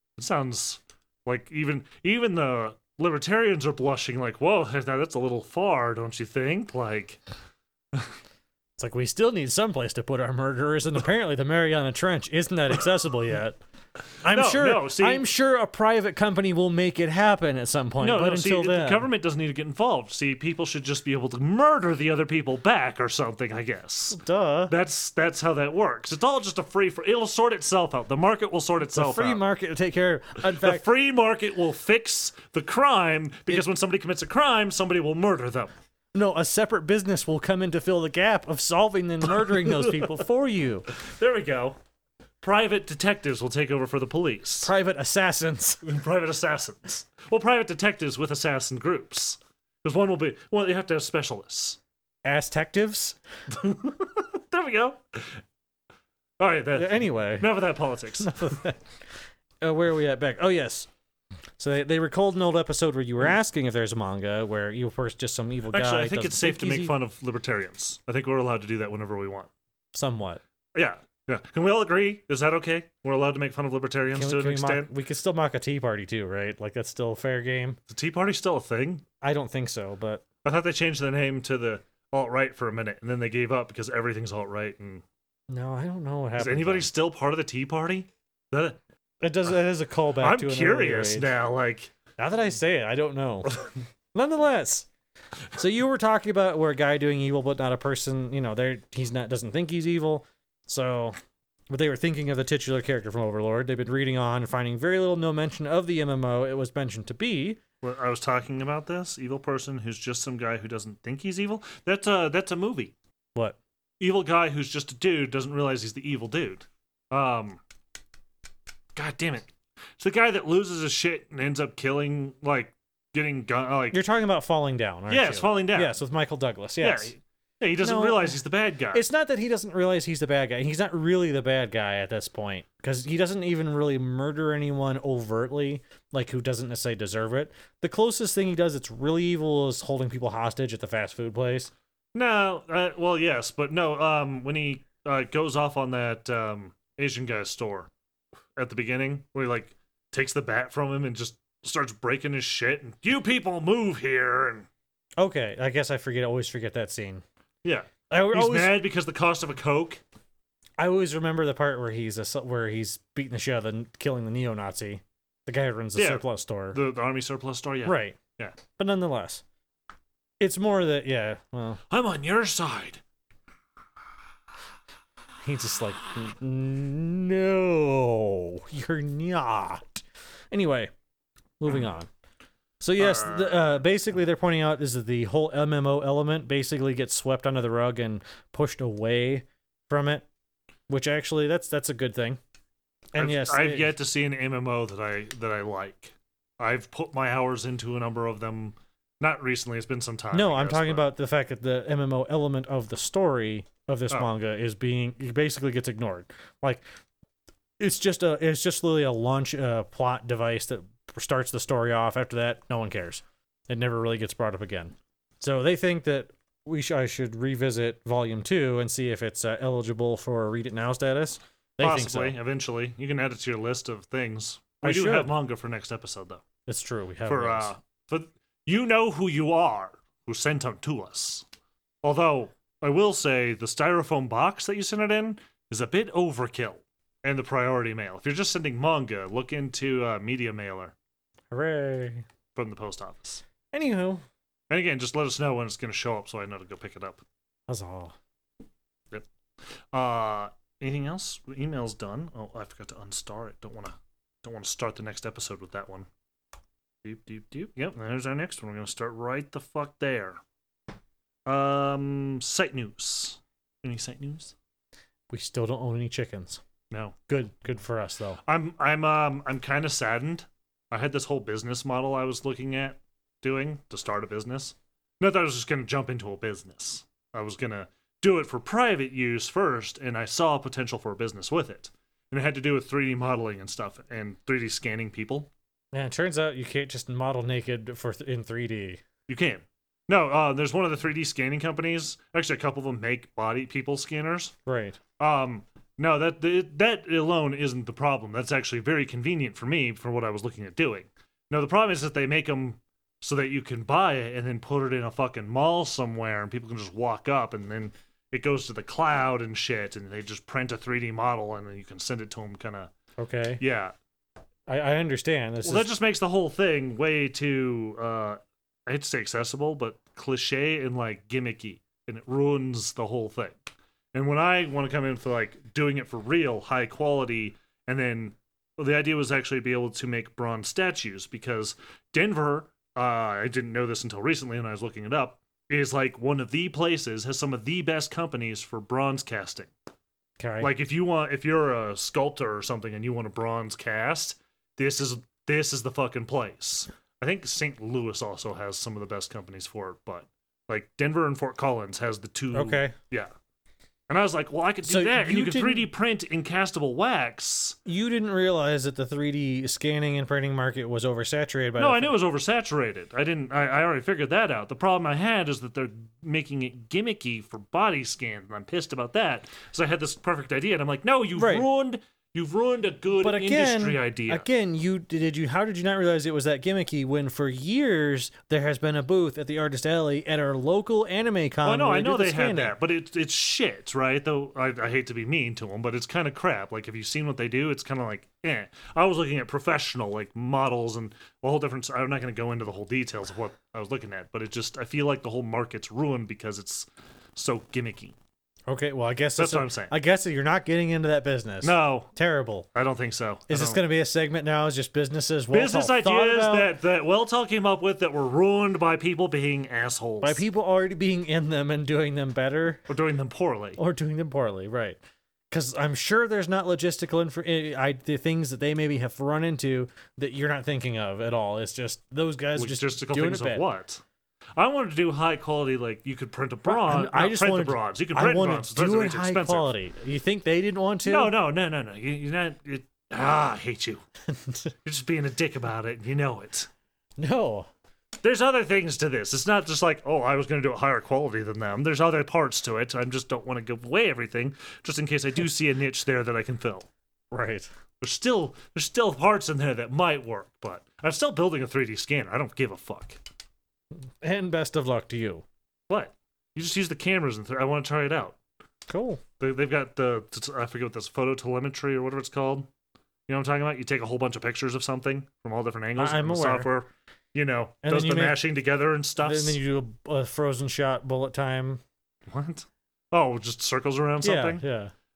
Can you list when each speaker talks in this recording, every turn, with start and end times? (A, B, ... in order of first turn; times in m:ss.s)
0:00.2-0:07.2 A
0:08.8-0:13.6 B
0:14.2-0:19.0 B
0:14.3-0:15.2 A
0:18.0-0:29.4 A
0:24.1-0:24.7 B
0:28.9-0:30.8 B
0:30.4-0:35.7 A
0:36.1-0:40.9 B
0:39.5-0:40.1 A
0:40.9-0:41.8 A
0:42.4-0:44.7 A
0:44.6-0:45.8 B
0:45.8-0:51.8 A
0:52.2-0:53.2 B
0:53.5-0:55.4 A
0:56.4-0:58.3 A
0:56.7-0:57.6 B
0:58.2-0:58.9 B
0:59.6-1:00.9 B
1:01.6-1:07.0 B
1:05.7-1:09.5 A
1:09.9-1:10.4 B
1:10.7-1:14.9 A
1:14.1-1:17.8 B
1:17.9-1:19.0 A
1:19.2-1:20.2 B
1:20.4-1:25.0 A
1:25.5-1:26.9 B
1:26.4-1:28.8 A
1:29.2-1:31.3 B
1:30.2-1:31.9 A
1:32.2-1:34.9 B
1:35.5-1:41.2 B
1:41.7-1:47.6 B
1:47.8-1:52.9 A
1:54.0-1:57.6 A
1:58.9-2:04.0 A
2:03.9-2:07.1 B
2:05.1-2:05.9 A
2:06.8-2:09.0 A
2:07.8-2:08.4 B
2:08.9-2:21.7 B
2:22.1-2:27.9 A
2:28.6-2:34.7 A
2:35.2-2:37.2 B
2:37.6-2:40.0 A
2:38.1-2:38.8 B
2:40.8-2:46.8 B
2:46.0-2:48.6 A
2:47.8-2:48.2 B
2:48.7-2:49.4 B
2:50.4-2:51.8 B
2:51.9-2:53.0 A
2:55.4-3:00.9 B
3:01.6-3:02.1 B
3:02.8-3:10.2 B
3:03.0-3:03.6 A
3:10.9-3:12.4 B
3:13.1-3:13.9 B
3:13.2-3:21.0 A
3:20.3-3:26.8 B
3:27.8-3:42.4 B
3:41.8-3:46.4 A
3:44.8-3:45.3 B
3:46.7-3:47.7 B
3:47.2-3:51.4 A
3:52.0-4:00.9 A
4:01.5-4:02.2 B
4:02.5-4:03.4 A
4:03.7-4:04.2 B
4:04.7-4:07.2 A
4:07.7-4:08.1 B
4:09.1-4:16.1 A
4:17.0-4:20.4 A
4:21.4-4:24.5 A
4:25.3-4:26.6 B
4:26.9-4:27.2 A
4:27.3-4:28.4 B
4:28.4-4:45.5 A
4:45.9-4:49.0 B
4:49.3-4:54.5 A
4:54.6-4:55.0 B
4:55.2-5:12.9 A
5:13.2-5:13.6 B
5:13.6-5:13.9 A
5:14.7-5:15.9 B
5:15.6-5:23.6 A
5:24.1-5:39.7 A
5:40.4-5:40.7 B
5:40.6-5:53.3 A
5:52.5-5:53.0 B
5:54.1-5:57.8 A
5:54.8-5:55.9 B
5:57.8-6:02.1 B
6:01.8-6:14.5 A
6:11.4-6:11.7 B
6:13.2-6:22.7 B
6:21.6-6:38.2 A
6:38.7-6:42.7 B
6:39.4-6:39.9 A
6:41.6-6:42.1 A
6:42.7-6:43.8 A
6:43.5-6:46.7 B
6:45.5-6:50.4 A
6:50.2-6:52.8 B
6:52.9-6:53.8 A
6:53.8-6:55.0 B
6:55.5-7:03.6 B
7:02.5-7:04.0 A
7:04.6-7:09.7 A
7:06.6-7:11.3 B
7:11.0-7:14.0 A
7:14.3-7:14.7 B
7:14.8-7:16.7 A
7:17.2-7:17.7 B
7:18.2-7:26.9 A
7:27.3-7:27.7 B
7:28.0-7:33.2 A
7:34.2-7:35.4 B
7:35.9-7:38.4 A
7:38.9-7:39.2 B
7:39.4-7:42.7 A
7:43.3-7:49.6 A
7:46.0-7:46.7 B
7:47.8-7:48.4 B
7:49.2-7:51.8 B
7:52.3-7:54.6 A
7:54.2-7:54.9 B